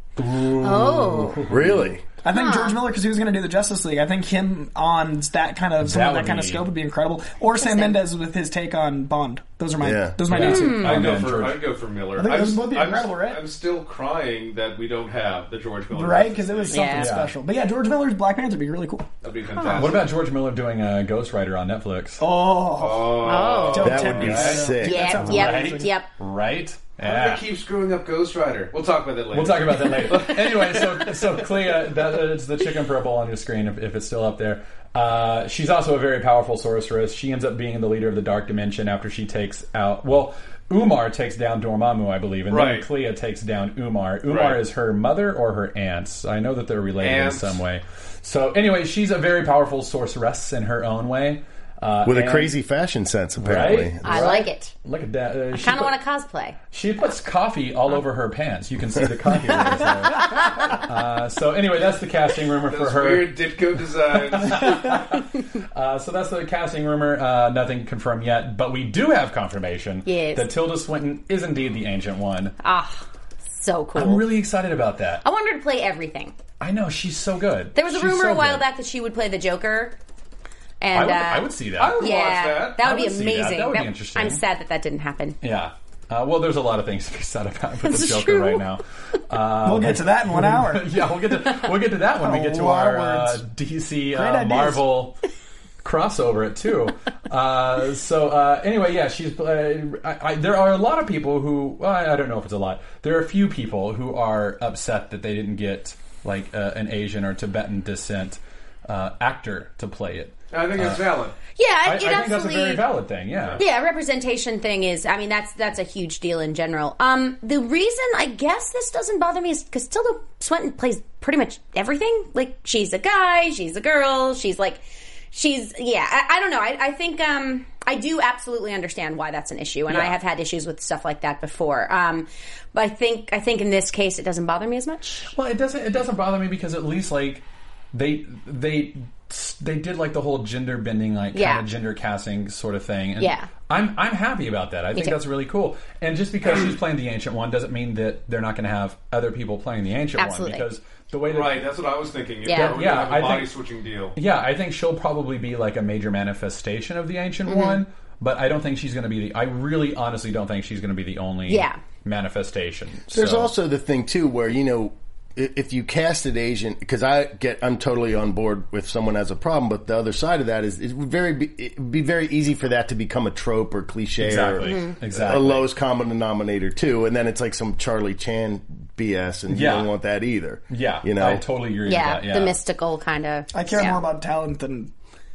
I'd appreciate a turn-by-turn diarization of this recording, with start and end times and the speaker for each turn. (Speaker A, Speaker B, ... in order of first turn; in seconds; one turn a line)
Speaker A: 0.2-1.9
Speaker B: 0.6-1.4
Speaker C: 1.5-2.0
Speaker D: 2.2-11.1
Speaker B: 2.3-2.8
Speaker A: 5.8-6.7
Speaker B: 7.6-8.0
Speaker C: 9.8-10.2
Speaker A: 10.3-11.6
Speaker B: 10.4-11.1
Speaker E: 10.6-17.0
Speaker D: 12.2-13.4
Speaker D: 15.9-19.1
Speaker B: 16.7-17.1
Speaker A: 17.0-17.3
Speaker E: 19.2-20.1
Speaker B: 19.5-19.9
Speaker A: 19.7-22.2
Speaker D: 22.2-25.9
Speaker E: 22.7-23.9
Speaker B: 23.2-24.3
Speaker A: 23.8-27.4
Speaker C: 23.8-25.2
Speaker B: 24.8-26.1
Speaker E: 27.0-31.1
Speaker A: 29.3-52.5
Speaker E: 42.5-42.9
Speaker E: 44.3-44.6
Speaker E: 47.0-47.6
Speaker C: 52.0-54.4
Speaker A: 53.4-55.9
Speaker B: 54.0-54.7
Speaker B: 55.6-56.6
Speaker A: 56.7-63.5
Speaker E: 62.7-64.9
Speaker A: 64.1-72.5
Speaker B: 70.0-70.5
Speaker B: 72.6-74.3
Speaker A: 73.9-75.2
Speaker B: 75.2-76.3
Speaker A: 76.6-78.6
Speaker B: 77.7-80.0
Speaker B: 80.8-85.4
Speaker A: 80.9-82.0
Speaker E: 81.7-82.8
Speaker A: 82.8-84.4
Speaker A: 85.4-95.2
Speaker B: 87.8-88.6
Speaker D: 89.6-90.9
Speaker D: 92.2-93.4
Speaker D: 94.1-94.8
Speaker A: 95.8-111.0
Speaker E: 110.5-111.3
Speaker B: 111.5-112.9
Speaker A: 111.8-113.6
Speaker B: 113.6-135.3
Speaker A: 129.9-130.1
Speaker A: 135.3-151.7
Speaker B: 141.3-141.6
Speaker B: 143.2-143.5
Speaker B: 150.2-150.7
Speaker E: 151.3-154.2
Speaker B: 152.4-152.8
Speaker A: 152.5-153.5
Speaker A: 154.1-163.5
Speaker B: 157.5-157.8
Speaker B: 161.5-161.8
Speaker C: 163.1-181.4
Speaker A: 174.2-175.7
Speaker B: 174.6-174.9
Speaker A: 179.5-179.9
Speaker A: 180.7-182.6
Speaker B: 181.8-184.0
Speaker D: 183.5-184.9